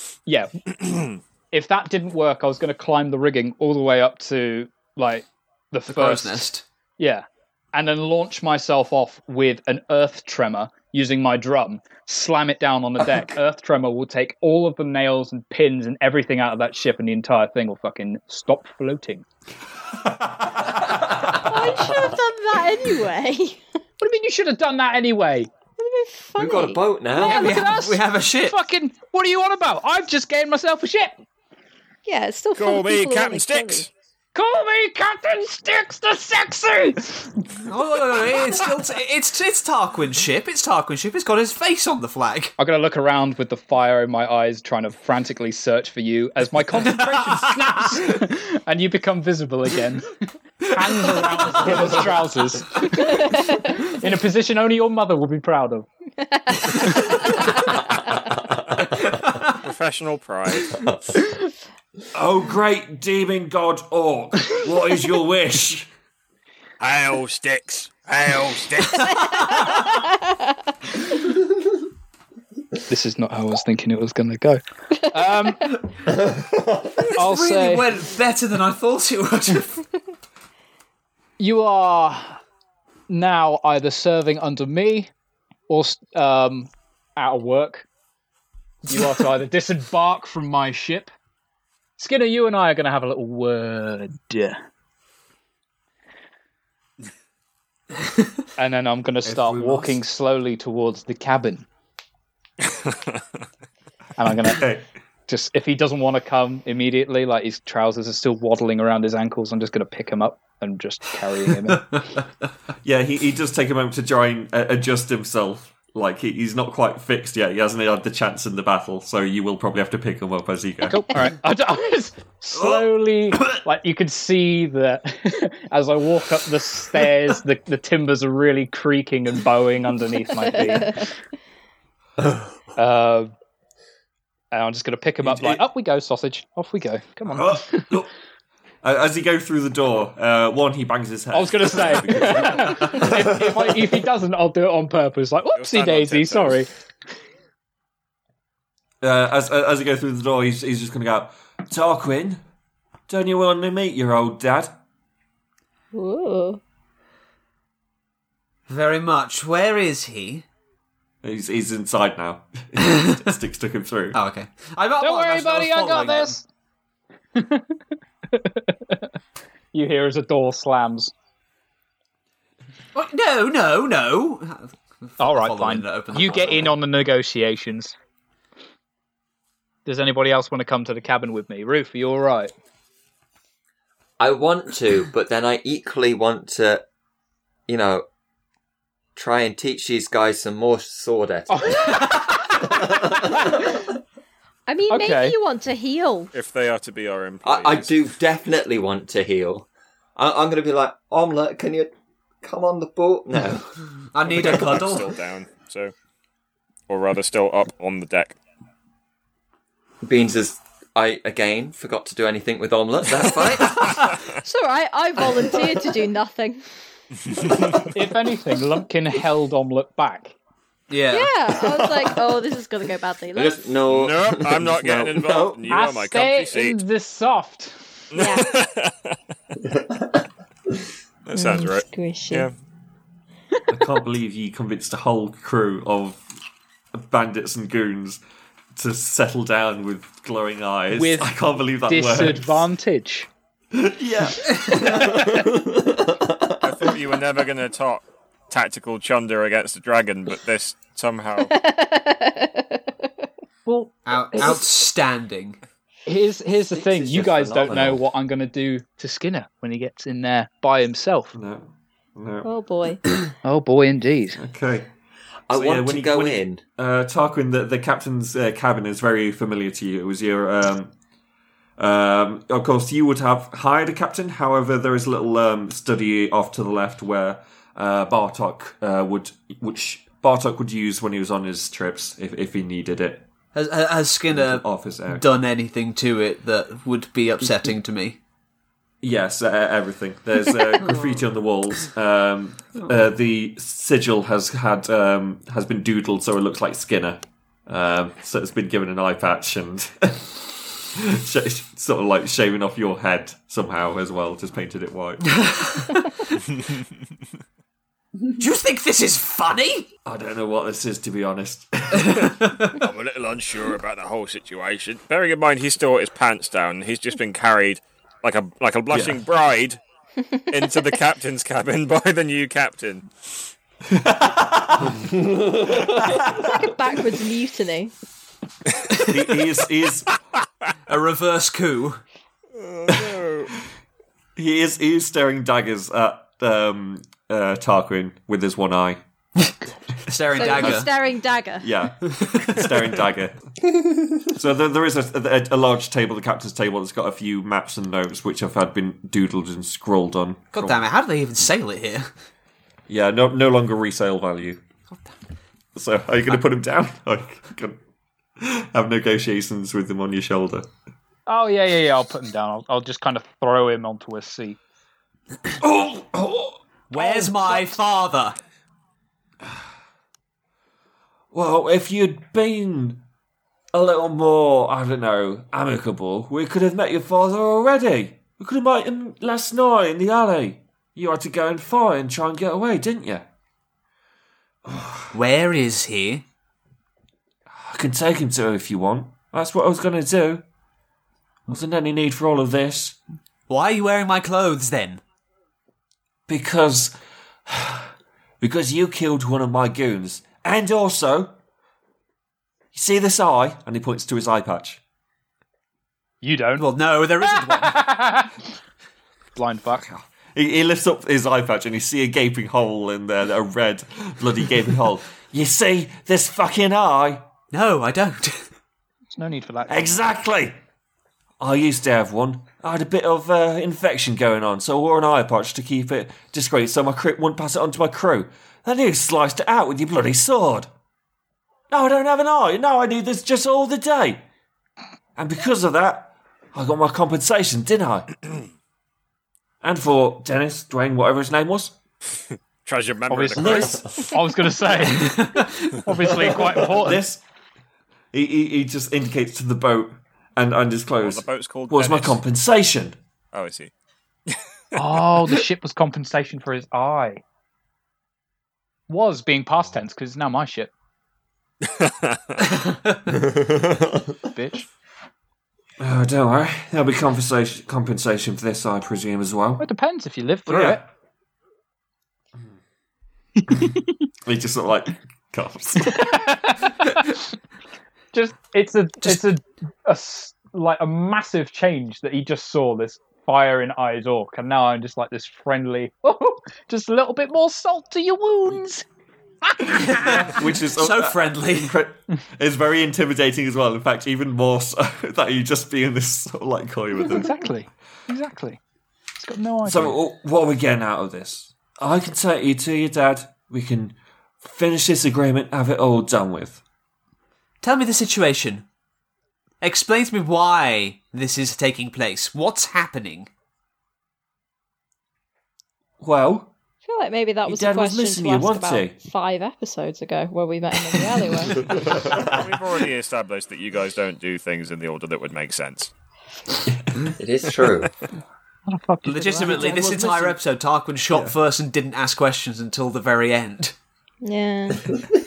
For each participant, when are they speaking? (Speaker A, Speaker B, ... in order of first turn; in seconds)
Speaker A: 0.2-19.2, 24.0-25.5, 27.1-31.2, 34.3-37.6, 42.6-55.9, 72.9-75.7, 77.1-77.9, 81.4-82.4, 83.1-85.1, 85.7-87.9, 88.8-91.1, 92.0-94.6, 98.6-101.7, 104.2-104.6, 105.3-112.0, 120.9-131.1, 132.8-133.3, 134.5-137.9, 141.3-146.7, 165.0-166.4, 167.3-167.7, 168.3-169.0, 169.7-171.1, 175.2-177.9, 179.8-182.5, 191.5-193.5, 194.9-195.3, 217.9-220.3, 225.7-227.8, 240.9-243.3, 253.7-254.6, 256.1-261.3, 263.4-264.4, 361.3-364.6, 366.9-367.8, 406.2-406.6, 407.3-408.3, 409.4-409.9, 419.1-420.0, 443.1-447.0, 454.7-457.2, 458.9-460.7, 464.3-464.7, 469.6-470.8, 475.9-477.1, 478.1-488.8, 489.4-490.4, 497.1-498.6, 499.2-500.0, 528.7-530.4
Speaker B: 5.9-6.6, 27.1-28.6, 37.6-42.5, 46.9-47.4, 51.0-51.9, 77.1-79.8, 158.7-160.4, 162.8-163.1, 164.1-166.4, 172.9-176.7, 204.1-205.1, 220.9-221.3, 254.1-255.6, 283.5-288.2, 305.3-306.3, 308.4-309.9, 312.1-312.8, 330.9-332.0, 340.1-340.9, 342.2-342.5, 350.5-352.1, 366.9-368.4, 385.1-386.2, 393.5-395.0, 406.6-407.9, 417.5-418.4, 445.1-445.8, 489.7-491.8, 507.6-508.6, 509.6-513.3, 529.0-533.7
Speaker C: 20.0-21.0, 62.1-65.9, 99.2-100.0, 104.4-104.9, 112.8-121.0, 122.5-123.6, 135.2-135.6, 137.2-138.1, 138.8-143.6, 149.0-152.4, 153.1-154.8, 161.2-164.2, 233.7-236.2, 236.9-238.2, 238.7-242.7, 243.7-245.2, 261.3-262.5, 264.3-264.9, 265.5-270.9, 271.8-283.2, 284.3-285.2, 289.0-305.4, 310.0-312.3, 318.9-319.2, 323.9-325.1, 325.6-326.7, 329.0-330.1, 334.4-339.0, 340.5-340.9, 341.6-343.4, 344.3-350.8, 352.9-354.6, 355.7-357.8, 358.4-360.7, 365.6-366.6, 371.3-373.0, 373.7-383.3, 384.6-385.1, 387.5-390.4, 391.5-393.0, 396.3-396.9, 397.5-401.3, 402.7-404.8, 409.7-417.3, 419.7-420.6, 421.4-430.7, 431.7-434.2, 435.2-438.2, 439.6-441.7, 443.4-443.8, 446.4-447.2, 448.1-453.0, 465.8-469.7, 470.4-470.8, 474.2-476.2, 490.0-497.3, 499.6-506.6, 516.0-516.5, 517.5-519.0, 526.7-527.1, 531.1-531.4
Speaker D: 21.4-23.6, 25.8-26.8, 32.0-33.9, 53.0-53.6, 56.2-57.5, 130.6-131.1, 155.9-156.6, 194.7-196.3, 214.4-216.6, 221.1-223.6, 228.2-228.5, 231.3-232.5, 251.4-253.1, 262.4-263.0, 326.4-327.9, 340.3-341.7, 516.8-521.8, 534.2-534.9
Speaker E: 26.4-27.6, 60.7-61.2, 76.1-77.0, 184.2-186.8, 187.7-188.0, 189.2-193.9, 197.4-203.8, 210.0-214.2, 223.3-225.7, 244.7-246.7, 256.7-258.0, 265.5-266.6, 463.2-463.8, 527.1-527.9
Speaker F: 32.5-33.9, 59.5-60.8, 66.8-69.5, 102.7-103.2, 145.5-146.6, 196.3-198.0, 204.2-205.9, 206.9-208.4, 213.8-214.4, 217.2-217.9, 223.9-226.8, 228.1-229.2, 231.2-232.5, 246.6-251.5, 312.8-319.8, 320.5-323.1, 332.5-333.5, 442.6-444.1, 451.0-452.2, 453.3-453.7, 461.6-462.4, 521.8-525.9